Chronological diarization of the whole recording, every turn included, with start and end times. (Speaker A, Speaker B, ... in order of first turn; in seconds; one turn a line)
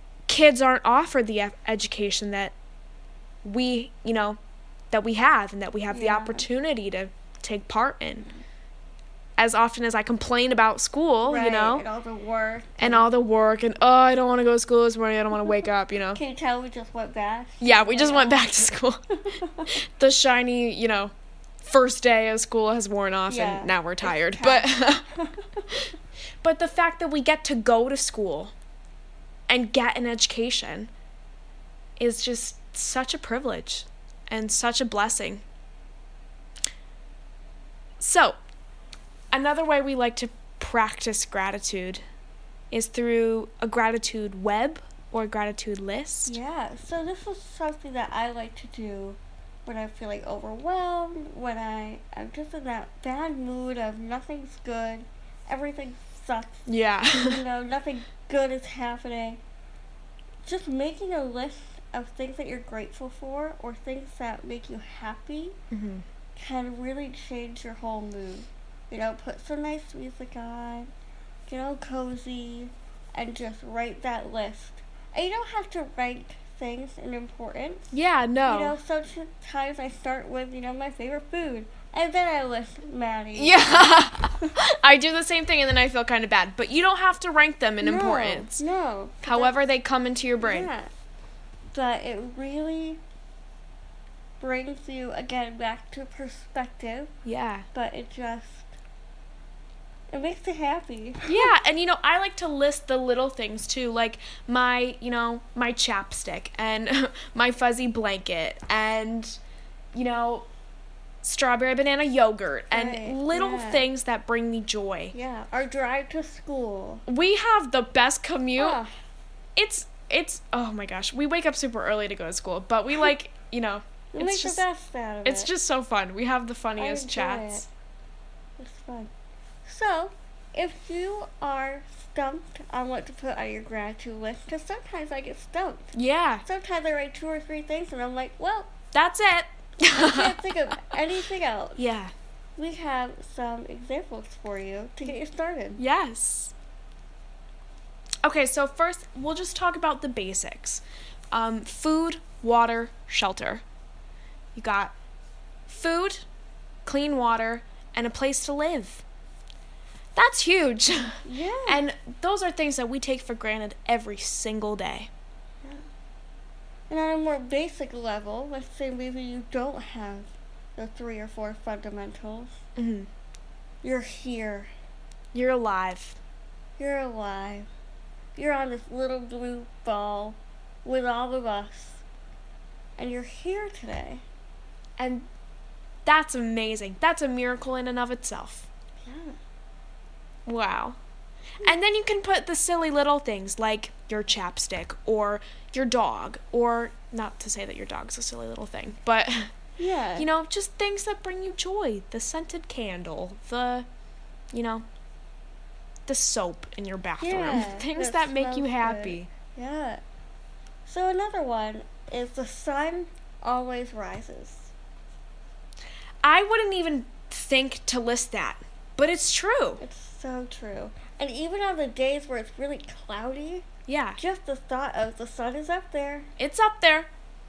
Speaker A: 0.3-2.5
Speaker A: 3.4-4.4
Speaker A: 4.9-8.3
Speaker B: 5.9-6.5
Speaker A: 9.4-11.8
Speaker B: 11.2-13.1
Speaker A: 12.8-16.2
Speaker B: 16.1-18.6
Speaker A: 17.6-19.0
Speaker B: 19.2-19.7
Speaker A: 19.6-21.1
Speaker A: 21.6-25.1
Speaker B: 23.3-25.8
Speaker A: 26.4-28.5
Speaker A: 29.5-30.9
Speaker A: 32.0-35.4
Speaker A: 38.0-38.4
Speaker A: 39.3-42.0
Speaker A: 42.7-46.4
Speaker B: 46.3-56.6
Speaker A: 56.7-57.4
Speaker B: 57.2-59.4
Speaker B: 60.4-65.6
Speaker A: 65.7-66.0
Speaker B: 66.3-70.9
Speaker B: 71.5-83.9
Speaker A: 77.9-78.8
Speaker A: 83.3-88.6
Speaker B: 87.8-89.7
Speaker A: 89.2-90.7
Speaker B: 90.4-90.9
Speaker B: 91.7-93.0
Speaker B: 94.4-97.1
Speaker A: 97.2-97.6
Speaker B: 97.7-98.7
Speaker B: 100.1-101.5
Speaker A: 101.2-109.4
Speaker A: 109.9-110.5
Speaker A: 111.2-115.1
Speaker B: 112.7-113.8
Speaker B: 115.1-117.0
Speaker A: 117.1-118.8
Speaker B: 118.6-118.9
Speaker A: 119.5-124.6
Speaker B: 124.1-125.5
Speaker A: 125.2-127.7
Speaker B: 126.8-127.7
Speaker B: 128.6-129.1
Speaker B: 129.6-135.9
Speaker A: 135.9-136.4
Speaker B: 136.4-138.7
Speaker A: 138.9-140.9
Speaker B: 139.9-141.8
Speaker A: 141.8-142.1
Speaker B: 142.6-145.8
Speaker A: 145.8-146.5
Speaker A: 148.2-153.6
Speaker A: 154.5-154.9
Speaker A: 155.7-156.2
Speaker A: 156.8-159.0
Speaker A: 160.2-165.1
Speaker B: 161.2-161.8
Speaker B: 166.9-172.6
Speaker A: 172.8-173.1
Speaker B: 173.8-174.7
Speaker A: 175.3-176.2
Speaker B: 176.8-177.7
Speaker B: 178.3-182.0
Speaker B: 183.0-184.2
Speaker A: 185.0-185.3
Speaker A: 186.1-188.7
Speaker B: 189.0-189.3
Speaker A: 190.4-191.0
Speaker A: 191.6-199.5
Speaker B: 199.8-200.3
Speaker A: 200.2-203.9
Speaker A: 204.5-204.8
Speaker A: 206.1-209.3
Speaker B: 207.2-210.0
Speaker B: 210.8-214.7
Speaker A: 216.2-219.8
Speaker B: 219.8-223.6
Speaker A: 223.9-224.2
Speaker B: 224.2-226.3
Speaker A: 226.4-227.1